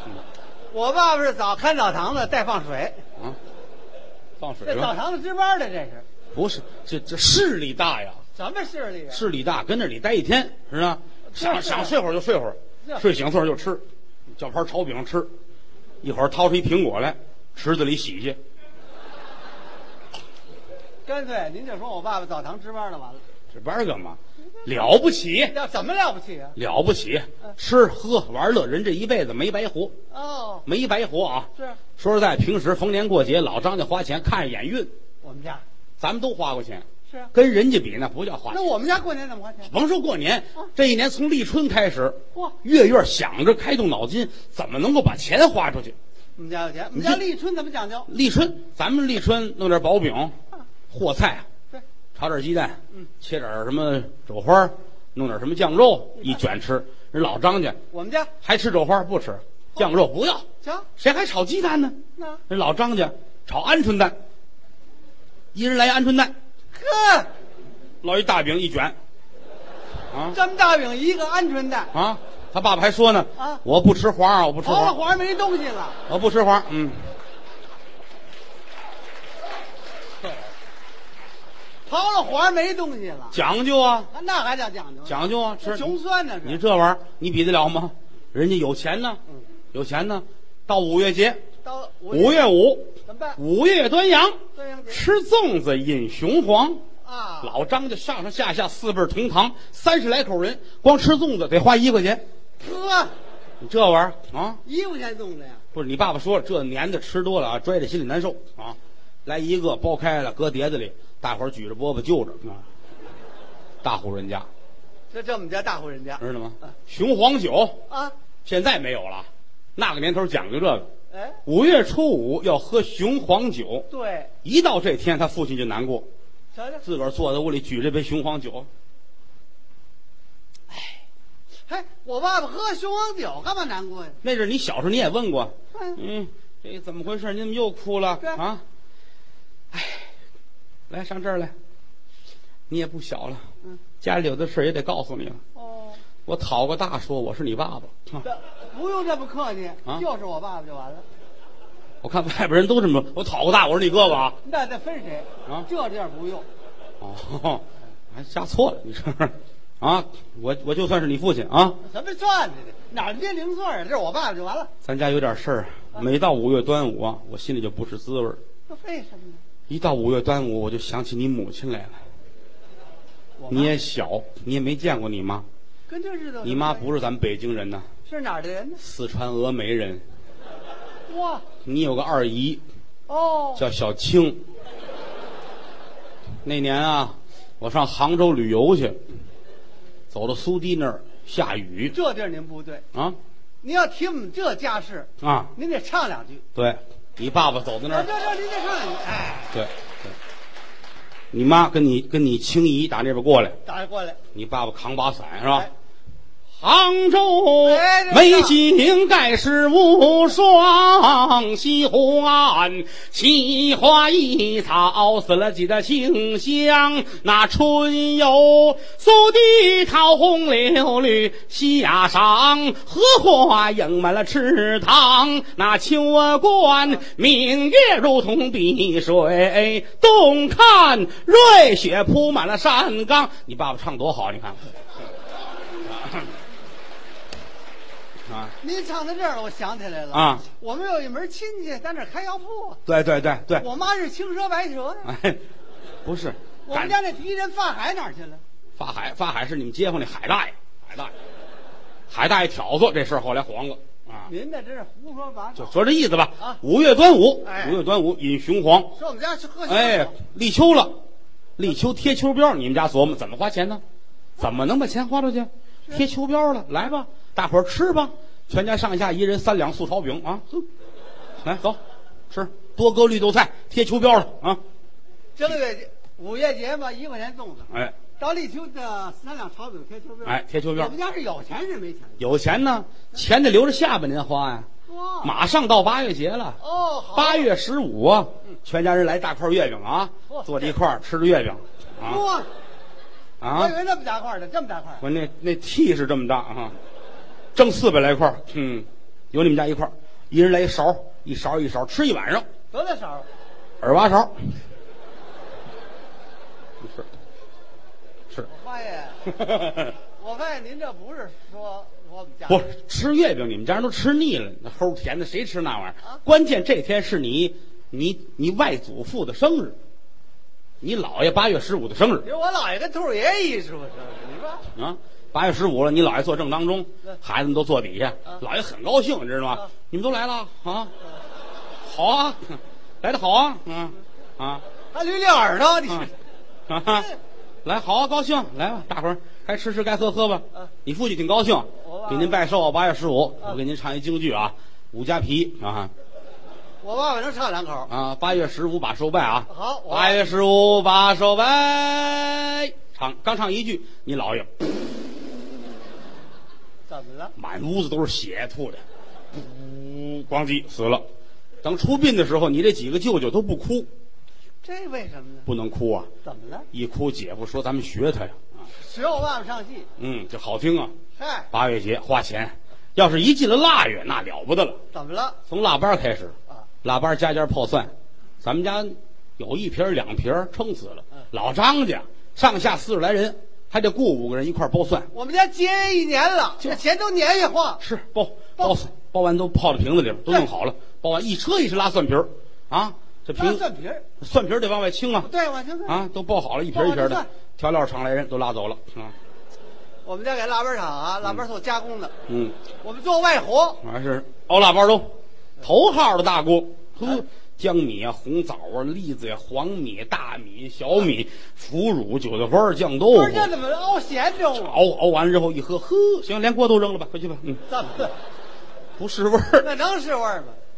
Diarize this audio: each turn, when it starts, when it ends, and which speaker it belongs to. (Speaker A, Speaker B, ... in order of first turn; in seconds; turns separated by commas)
Speaker A: 0.7-3.0, Speaker B: 4.4-4.9, Speaker A: 4.6-6.1, Speaker B: 6.3-8.2, Speaker A: 8.3-9.2, Speaker B: 9.1-15.3, Speaker A: 11.3-11.9, Speaker B: 16.0-18.4, Speaker A: 21.1-23.2, Speaker B: 23.5-25.6, Speaker A: 25.4-26.6, Speaker B: 26.6-29.9, Speaker A: 30.1-30.6, Speaker B: 30.7-34.9, Speaker A: 35.2-35.6, Speaker B: 36.0-38.6, Speaker A: 38.5-39.7, Speaker B: 39.7-46.0, Speaker A: 46.4-48.1, Speaker B: 47.0-47.2, Speaker B: 48.1-50.4, Speaker B: 50.9-51.5, Speaker B: 52.1-57.8, Speaker A: 57.9-58.3, Speaker B: 58.4-60.5, Speaker A: 60.6-60.9, Speaker B: 61.0-62.0, Speaker A: 62.2-62.4, Speaker B: 62.5-64.2, Speaker B: 65.5-66.3, Speaker A: 66.7-67.3, Speaker B: 68.0-69.0, Speaker A: 70.3-71.9, Speaker B: 71.9-75.0, Speaker A: 74.6-76.0, Speaker B: 76.1-77.1, Speaker A: 81.9-83.4, Speaker B: 83.3-84.1, Speaker A: 84.1-86.6, Speaker B: 85.1-89.2, Speaker B: 89.7-91.4, Speaker A: 91.6-92.5, Speaker B: 92.1-96.8, Speaker A: 93.0-93.4, Speaker A: 94.5-95.0, Speaker A: 97.0-97.5, Speaker B: 97.4-102.2, Speaker A: 102.6-103.1, Speaker B: 103.6-104.6, Speaker A: 104.7-105.6, Speaker B: 105.7-112.7, Speaker B: 113.8-114.5, Speaker A: 115.1-116.7, Speaker B: 116.2-117.8, Speaker A: 117.9-118.2, Speaker B: 118.5-120.9, Speaker A: 121.1-121.4, Speaker B: 121.5-123.9, Speaker A: 123.9-124.3, Speaker B: 124.4-126.1, Speaker A: 126.5-126.8, Speaker B: 126.8-128.7, Speaker A: 131.7-134.2, Speaker B: 134.2-138.6, Speaker A: 135.7-136.0, Speaker B: 139.7-140.1, Speaker B: 140.9-141.5, Speaker B: 142.7-143.5, Speaker B: 144.0-145.4, Speaker A: 145.6-146.0, Speaker B: 146.2-148.2, Speaker A: 148.2-151.1, Speaker B: 152.0-154.4, Speaker A: 154.4-156.5, Speaker B: 157.0-161.8, Speaker A: 161.8-164.7, Speaker B: 164.8-168.4, Speaker A: 168.7-169.4, Speaker B: 169.7-172.0, Speaker A: 173.4-173.8, Speaker B: 173.5-175.5, Speaker A: 175.9-176.9, Speaker B: 176.4-177.9, Speaker A: 178.1-178.8, Speaker B: 178.8-180.1, Speaker A: 181.1-181.4, Speaker B: 181.6-182.6, Speaker A: 183.1-183.6, Speaker B: 183.6-184.4, Speaker B: 186.4-189.0, Speaker B: 190.1-191.9, Speaker A: 191.9-192.8, Speaker A: 193.6-196.4, Speaker B: 195.2-195.5, Speaker B: 196.6-198.1, Speaker A: 197.9-199.6, Speaker B: 199.5-200.1, Speaker B: 201.3-203.6, Speaker A: 203.7-204.2, Speaker B: 204.3-205.7, Speaker B: 206.6-234.7, Speaker A: 207.6-208.6, Speaker B: 235.9-236.3, Speaker B: 238.3-238.5, Speaker A: 238.6-242.8, Speaker B: 240.1-240.4, Speaker B: 242.9-243.7, Speaker A: 243.6-245.1, Speaker B: 245.1-245.4, Speaker B: 246.0-246.9, Speaker A: 246.7-248.4, Speaker B: 248.8-251.2, Speaker B: 252.1-254.3, Speaker A: 254.2-255.7, Speaker B: 255.6-258.9, Speaker A: 257.4-257.8, Speaker A: 258.9-260.1, Speaker B: 259.7-261.0, Speaker B: 261.6-263.8, Speaker B: 264.4-270.7, Speaker B: 271.4-271.8, Speaker B: 272.3-274.6, Speaker A: 275.4-282.2, Speaker B: 277.7-278.0, Speaker B: 280.2-280.9, Speaker B: 282.2-284.7, Speaker A: 284.9-285.3, Speaker B: 285.2-286.6, Speaker A: 286.6-287.5, Speaker B: 287.1-292.2, Speaker A: 290.3-290.8, Speaker A: 292.0-292.5, Speaker B: 293.4-293.7, Speaker A: 293.5-295.1, Speaker B: 295.0-296.8, Speaker B: 297.6-302.5, Speaker A: 302.7-303.3, Speaker B: 303.8-304.5, Speaker B: 306.8-307.1, Speaker A: 308.5-309.3, Speaker B: 309.3-309.9, Speaker A: 310.2-312.6, Speaker B: 312.5-319.8, Speaker B: 320.8-322.3, Speaker A: 322.2-324.7, Speaker B: 324.8-330.9, Speaker B: 331.8-334.6, Speaker A: 334.9-336.1, Speaker B: 336.7-337.1, Speaker B: 337.6-345.9, Speaker A: 341.8-342.4, Speaker A: 346.8-347.9, Speaker B: 347.9-354.5, Speaker A: 349.5-350.3, Speaker A: 356.9-357.4, Speaker B: 357.4-361.1, Speaker B: 361.6-363.9, Speaker A: 364.6-365.5, Speaker B: 365.5-366.1, Speaker A: 366.2-366.7, Speaker B: 366.7-368.4, Speaker A: 368.8-369.9, Speaker B: 370.0-370.9, Speaker A: 371.2-371.5, Speaker B: 371.5-374.8, Speaker A: 374.9-375.4, Speaker B: 375.5-385.1, Speaker A: 385.1-387.8, Speaker B: 387.8-393.6, Speaker A: 393.4-394.1, Speaker B: 394.2-395.3, Speaker A: 395.2-396.0, Speaker B: 395.9-399.1, Speaker A: 396.7-397.3, Speaker A: 400.1-402.1, Speaker B: 402.3-402.6, Speaker A: 402.8-403.8, Speaker B: 403.8-413.5, Speaker A: 413.1-414.8, Speaker B: 414.5-417.6, Speaker A: 417.7-418.1, Speaker B: 419.0-419.7, Speaker A: 419.6-420.6